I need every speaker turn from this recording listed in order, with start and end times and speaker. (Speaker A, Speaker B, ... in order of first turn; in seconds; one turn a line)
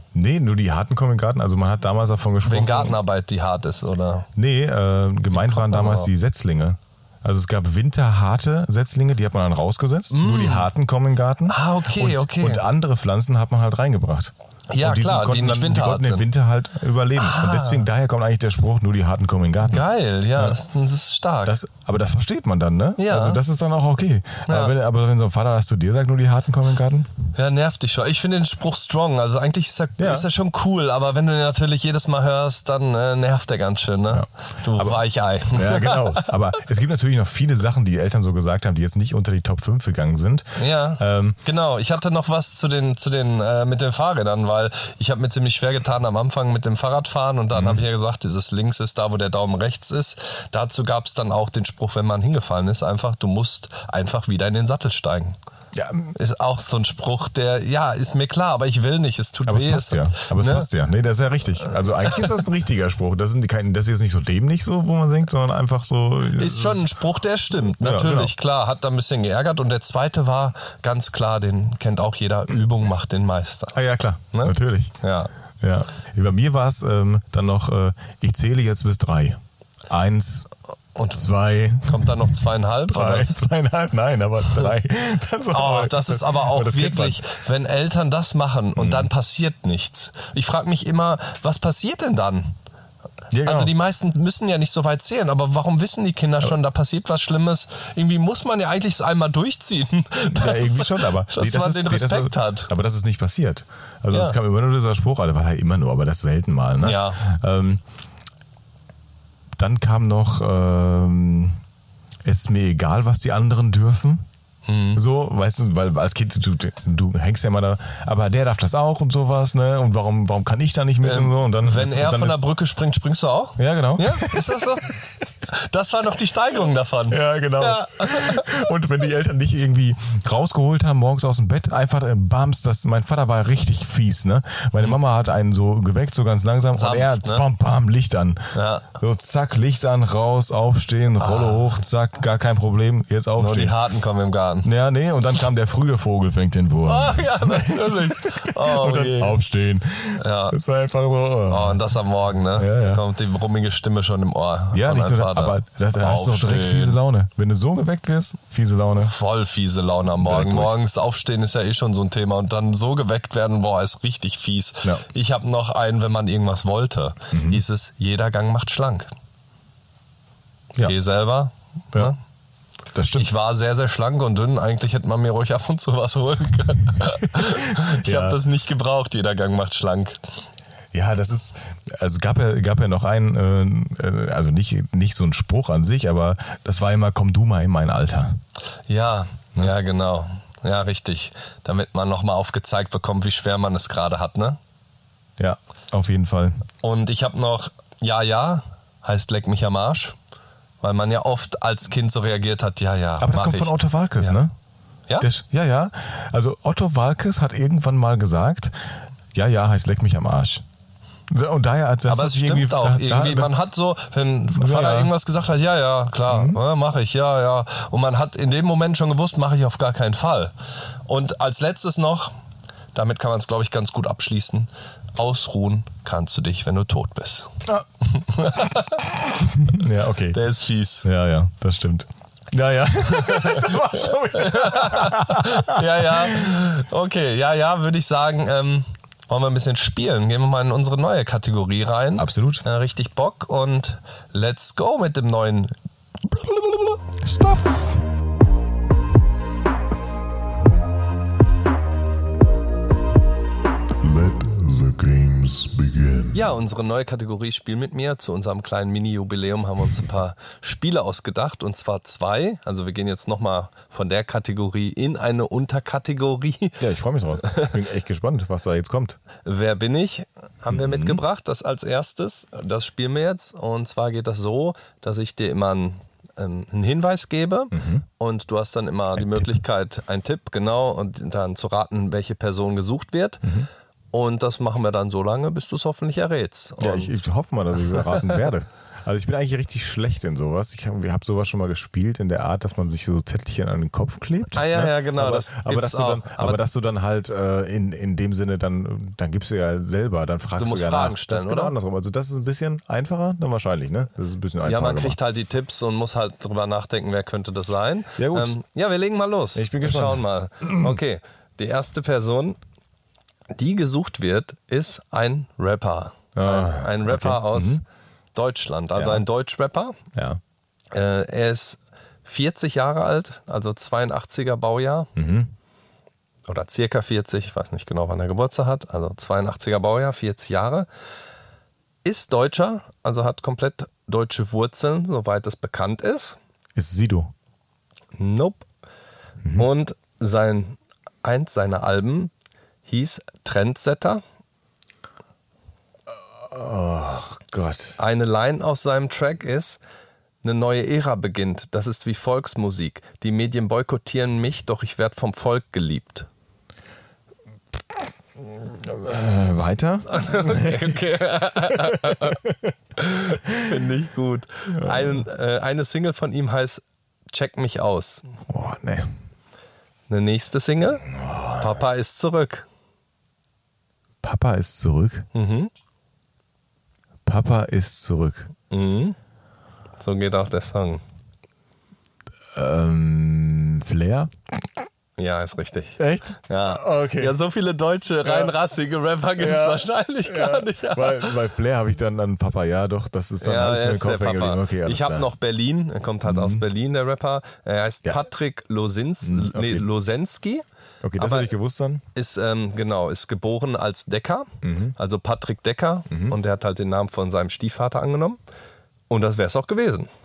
Speaker A: 0.1-3.0
Speaker B: 2.4-4.3
Speaker A: 4.3-20.6
Speaker B: 5.3-6.1
Speaker B: 10.1-10.7
Speaker B: 11.5-12.6
Speaker B: 14.7-16.3
Speaker B: 17.2-17.9
Speaker B: 19.7-21.6
Speaker A: 21.4-27.1
Speaker B: 23.0-23.4
Speaker B: 24.5-24.7
Speaker B: 27.3-36.3
Speaker A: 30.0-30.3
Speaker A: 34.1-41.4
Speaker B: 40.6-55.4
Speaker A: 47.5-47.8
Speaker A: 55.7-56.1
Speaker B: 56.1-60.7
Speaker A: 59.5-66.8
Speaker B: 62.0-62.3
Speaker B: 66.3-73.8
Speaker A: 67.7-68.3
Speaker A: 73.7-74.9
Speaker B: 74.3-75.3
Speaker A: 75.6-80.5
Speaker B: 81.0-81.3
Speaker A: 81.1-87.2
Speaker B: 81.8-83.4
Speaker B: 85.5-92.5
Speaker A: 88.8-89.1
Speaker A: 93.3-93.7
Speaker B: 93.4-102.7
Speaker A: 100.3-107.8
Speaker B: 104.1-104.4
Speaker B: 106.8-107.2
Speaker A: 109.6-111.6
Speaker A: 112.2-114.2
Speaker B: 114.7-115.0
Speaker A: 114.9-122.4
Speaker B: 121.0-128.5
Speaker A: 123.6-124.9
Speaker A: 127.1-143.8
Speaker B: 136.7-137.4
Speaker B: 138.5-138.9
Speaker B: 141.2-141.7
Speaker B: 143.4-144.7
Speaker A: 144.6-151.8
Speaker B: 146.8-149.4
Speaker B: 150.2-150.6
Speaker B: 151.5-157.0
Speaker A: 152.5-153.0
Speaker A: 154.7-159.1
Speaker B: 159.0-169.1
Speaker A: 160.1-160.8
Speaker A: 167.3-167.6
Speaker B: 170.8-172.2
Speaker A: 172.9-173.3
Speaker B: 173.1-180.2
Speaker A: 177.1-178.4
Speaker A: 180.9-188.4
Speaker B: 188.9-194.6
Speaker A: 195.4-196.6
Speaker B: 196.8-200.2
Speaker B: 200.8-204.4
Speaker A: 203.2-204.5
Speaker A: 205.2-208.7
Speaker A: 209.3-210.6
Speaker A: 211.3-213.6
Speaker B: 212.1-220.5
Speaker A: 214.5-215.1
Speaker A: 216.3-216.6
Speaker B: 221.1-222.3
Speaker B: 222.9-229.1
Speaker A: 229.4-230.4
Speaker B: 230.3-231.1
Speaker A: 231.0-236.5
Speaker B: 233.1-245.7
Speaker A: 242.2-242.6
Speaker B: 246.4-246.9
Speaker A: 247.2-248.0
Speaker C: 254.0-256.5
Speaker B: 256.3-266.8
Speaker A: 266.8-269.2
Speaker B: 267.4-267.7
Speaker B: 269.4-283.5
Speaker A: 270.7-271.2
Speaker A: 277.7-278.0
Speaker A: 279.1-279.5
Speaker A: 283.4-283.7
Speaker B: 284.1-287.1
Speaker A: 286.8-305.2
Speaker B: 287.9-288.4
Speaker B: 294.5-296.6
Speaker B: 300.6-301.7
Speaker B: 304.6-312.6
Speaker A: 308.2-308.6
Speaker A: 309.5-311.0
Speaker B: 313.5-317.8
Speaker A: 316.3-317.8
Speaker B: 318.3-319.9
Speaker A: 318.9-319.2
Speaker A: 320.1-320.4
Speaker B: 320.9-325.1
Speaker A: 325.1-325.5
Speaker B: 326.5-330.9
Speaker B: 332.0-336.4
Speaker A: 336.8-337.3
Speaker B: 338.2-338.6
Speaker B: 339.5-342.3
Speaker B: 342.8-344.2
Speaker A: 346.1-348.0
Speaker B: 348.0-349.8
Speaker B: 350.4-356.3
Speaker A: 358.4-361.0
Speaker B: 360.1-362.4
Speaker A: 361.7-362.7
Speaker B: 362.9-368.3
Speaker A: 364.7-365.2
Speaker A: 368.5-369.1
Speaker B: 370.1-371.1
Speaker A: 371.0-371.8
Speaker B: 371.6-372.6
Speaker A: 374.2-375.3
Speaker B: 375.3-375.7
Speaker A: 377.2-378.5
Speaker B: 378.7-379.1
Speaker B: 380.0-381.0
Speaker A: 382.5-384.3
Speaker B: 385.2-391.4
Speaker A: 386.0-387.4
Speaker A: 388.2-388.6
Speaker A: 389.4-395.3
Speaker B: 393.4-400.6
Speaker A: 396.2-396.6
Speaker A: 399.2-399.9
Speaker A: 401.0-402.0
Speaker B: 401.2-401.5
Speaker B: 402.1-408.4
Speaker A: 404.6-404.9
Speaker A: 406.1-406.4
Speaker B: 409.1-410.1